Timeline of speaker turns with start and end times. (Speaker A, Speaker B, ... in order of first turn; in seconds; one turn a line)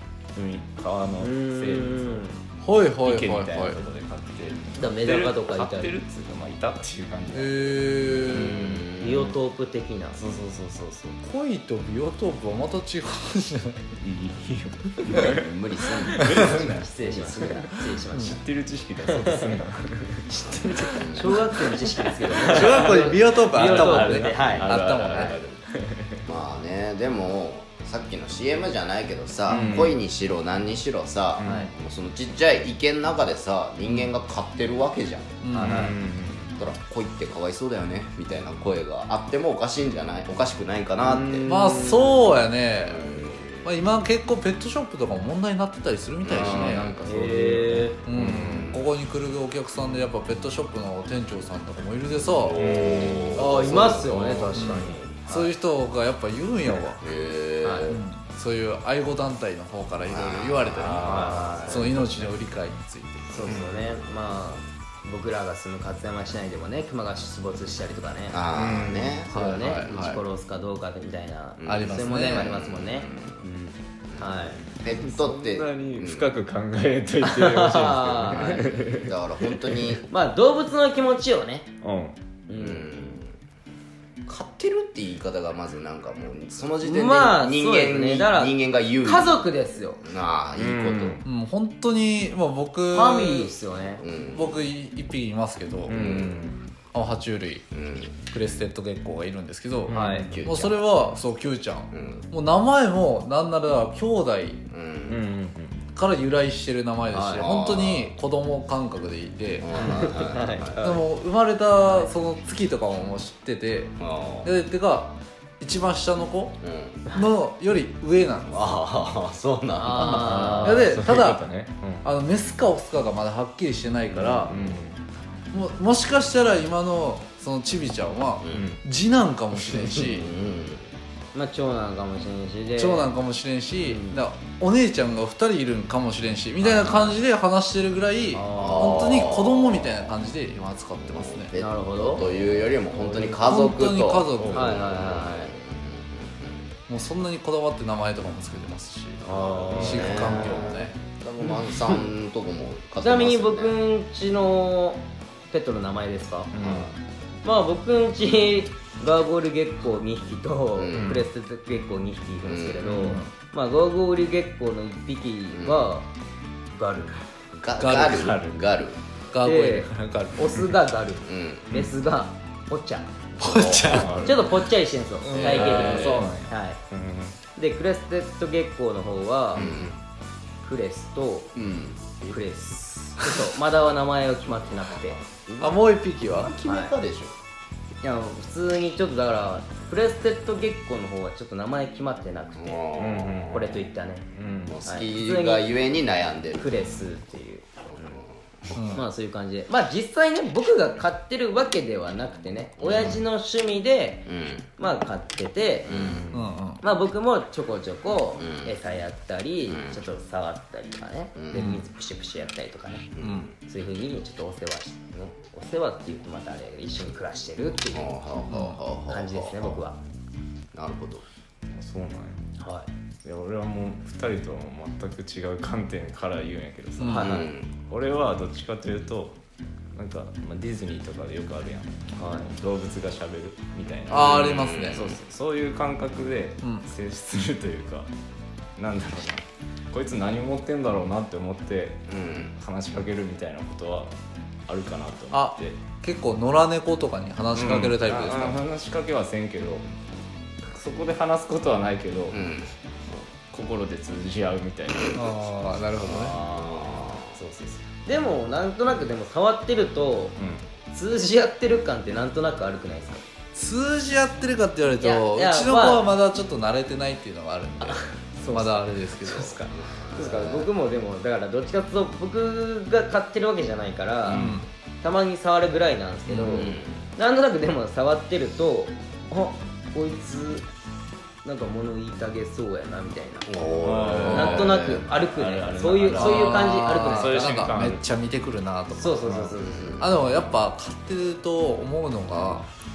Speaker A: 0.3-2.2
Speaker B: 1.2-2.4
Speaker C: 2.6-3.8
Speaker A: 3.0-8.8
Speaker B: 4.8-6.0
Speaker C: 7.3-8.6
Speaker D: 8.2-9.4
Speaker B: 9.0-10.2
Speaker A: 10.1-11.2
Speaker C: 11.2-13.9
Speaker A: 14.0-20.2
Speaker D: 15.1-16.6
Speaker B: 16.2-18.4
Speaker C: 18.1-18.4
Speaker B: 19.1-19.6
Speaker B: 20.3-24.7
Speaker D: 20.9-21.4
Speaker A: 22.2-26.2
Speaker C: 22.4-25.4
Speaker D: 26.3-35.4
Speaker A: 29.5-30.0
Speaker A: 31.4-31.7
Speaker B: 31.4-31.7
Speaker C: 35.4-35.8
Speaker B: 35.5-35.9
Speaker A: 35.5-36.5
Speaker D: 36.6-41.5
Speaker B: 41.1-42.3
Speaker C: 41.5-43.1
Speaker D: 42.8-43.7
Speaker C: 43.6-47.0
Speaker D: 46.2-47.1
Speaker A: 46.4-48.7
Speaker B: 47.0-48.0
Speaker C: 48.0-52.6
Speaker D: 48.4-48.9
Speaker D: 52.4-55.2
Speaker A: 52.5-54.3
Speaker B: 53.4-55.5
Speaker C: 54.5-57.0
Speaker D: 57.0-58.0
Speaker B: 57.6-58.0
Speaker C: 57.9-63.5
Speaker D: 60.0-62.0
Speaker A: 60.8-62.1
Speaker B: 61.0-62.0
Speaker B: 63.3-68.4
Speaker A: 63.5-63.8
Speaker D: 68.3-70.2
Speaker A: 68.5-69.2
Speaker B: 69.3-74.6
Speaker C: 69.3-69.9
Speaker D: 71.6-73.5
Speaker C: 71.7-72.5
Speaker D: 74.1-76.3
Speaker A: 74.8-79.8
Speaker B: 77.2-78.7
Speaker D: 78.3-80.0
Speaker B: 80.1-81.7
Speaker A: 81.8-82.2
Speaker B: 82.5-82.9
Speaker D: 82.5-83.3
Speaker D: 84.2-89.5
Speaker B: 86.8-90.0
Speaker D: 90.0-91.2
Speaker A: 90.5-91.2
Speaker C: 91.2-93.5
Speaker B: 92.9-94.0
Speaker D: 94.0-94.6
Speaker C: 94.3-96.1
Speaker A: 95.8-96.6
Speaker D: 95.9-96.4
Speaker C: 96.9-97.7
Speaker D: 97.7-98.2
Speaker C: 98.2-104.6
Speaker A: 99.9-100.3
Speaker B: 99.9-100.3
Speaker D: 100.2-100.9
Speaker D: 101.9-102.3
Speaker D: 104.7-105.2
Speaker A: 105.1-105.8
Speaker C: 105.9-109.7
Speaker B: 107.1-107.4
Speaker D: 107.3-108.1
Speaker D: 109.6-110.9
Speaker B: 109.7-111.0
Speaker C: 110.8-116.6
Speaker B: 111.8-112.1
Speaker D: 114.0-114.5
Speaker D: 116.6-117.0
Speaker C: 117.1-118.6
Speaker D: 118.5-120.4
Speaker B: 119.8-121.0
Speaker C: 119.9-121.5
Speaker A: 120.0-122.1
Speaker C: 122.0-124.5
Speaker A: 124.1-125.0
Speaker D: 124.5-124.8
Speaker C: 125.5-130.3
Speaker A: 128.5-128.8
Speaker D: 129.6-130.9
Speaker B: 131.3-133.1
Speaker C: 132.8-141.5
Speaker B: 133.8-134.2
Speaker B: 136.7-137.1
Speaker B: 138.3-139.3
Speaker D: 138.6-140.1
Speaker D: 141.0-146.7
Speaker B: 141.5-142.3
Speaker B: 142.9-143.7
Speaker C: 143.4-144.7
Speaker A: 144.4-144.7
Speaker B: 144.5-145.5
Speaker C: 146.9-151.0
Speaker B: 149.2-150.7
Speaker D: 149.2-153.8
Speaker B: 151.4-152.1
Speaker B: 153.0-156.5
Speaker A: 156.5-157.0
Speaker D: 156.6-156.9
Speaker B: 157.4-166.1
Speaker D: 160.8-161.2
Speaker A: 160.9-161.3
Speaker D: 162.4-163.1
Speaker C: 163.0-163.3
Speaker D: 165.5-165.9
Speaker B: 166.7-167.2
Speaker D: 167.5-169.0
Speaker C: 167.8-168.3
Speaker A: 168.1-168.6
Speaker C: 169.3-170.6
Speaker B: 169.4-173.1
Speaker D: 171.2-171.8
Speaker D: 173.4-174.3
Speaker C: 173.4-174.2
Speaker A: 173.9-174.5
Speaker B: 174.1-176.8
Speaker C: 175.2-176.3
Speaker D: 175.3-176.2
Speaker A: 175.4-177.4
Speaker B: 177.5-179.7
Speaker A: 179.6-180.0
Speaker D: 179.6-180.0
Speaker B: 180.6-181.5
Speaker D: 181.5-182.4
Speaker B: 182.3-185.2
Speaker D: 185.1-187.3
Speaker C: 185.6-186.5
Speaker B: 186.6-186.9
Speaker B: 188.0-192.8
Speaker D: 192.6-193.8
Speaker A: 192.9-193.8
Speaker B: 193.5-194.2
Speaker A: 194.3-194.8
Speaker D: 194.7-196.7
Speaker B: 194.8-195.7
Speaker B: 196.6-198.1
Speaker D: 197.9-198.8
Speaker C: 198.7-199.0
Speaker B: 198.9-206.2
Speaker D: 202.8-203.2
Speaker D: 204.2-204.7
Speaker D: 205.8-206.3
Speaker C: 206.3-206.8
Speaker B: 206.8-218.2
Speaker D: 208.4-208.8
Speaker D: 209.7-210.0
Speaker D: 211.3-211.7
Speaker C: 211.5-211.8
Speaker D: 213.1-213.5
Speaker C: 213.2-213.5
Speaker D: 217.9-219.9
Speaker C: 218.5-218.8
Speaker B: 219.1-220.0
Speaker D: 220.7-221.2
Speaker A: 221.7-222.4
Speaker B: 222.6-222.9
Speaker A: 223.2-227.2
Speaker C: 227.0-227.3
Speaker B: 227.0-227.5
Speaker D: 227.2-227.7
Speaker A: 227.8-229.4
Speaker A: 229.9-238.1
Speaker B: 232.1-232.5
Speaker C: 234.1-235.1
Speaker D: 234.1-235.2
Speaker C: 236.6-236.9
Speaker A: 238.8-242.0
Speaker D: 242.1-242.5
Speaker A: 242.6-244.2
Speaker A: 244.7-245.8
Speaker C: 245.3-248.6
Speaker A: 247.5-249.9
Speaker A: 250.6-252.4
Speaker D: 252.3-252.7
Speaker A: 253.5-255.5
Speaker C: 255.1-256.4
Speaker D: 256.0-257.4
Speaker A: 256.1-257.9
Speaker B: 257.9-260.4
Speaker A: 260.4-260.6
Speaker B: 260.9-263.2
Speaker C: 263.5-269.6
Speaker B: 265.0-266.1
Speaker B: 268.5-268.9
Speaker A: 269.3-269.7
Speaker D: 269.8-270.7
Speaker B: 270.1-274.5
Speaker A: 274.3-274.6
Speaker C: 274.3-274.7
Speaker B: 275.0-280.6
Speaker C: 276.3-276.7
Speaker D: 276.5-277.1
Speaker B: 281.4-283.5
Speaker D: 283.5-285.1
Speaker A: 283.8-288.0
Speaker C: 284.2-284.5
Speaker B: 284.3-287.8
Speaker C: 286.1-289.4
Speaker B: 288.9-290.1
Speaker A: 289.2-289.6
Speaker D: 289.6-290.2
Speaker C: 290.0-292.7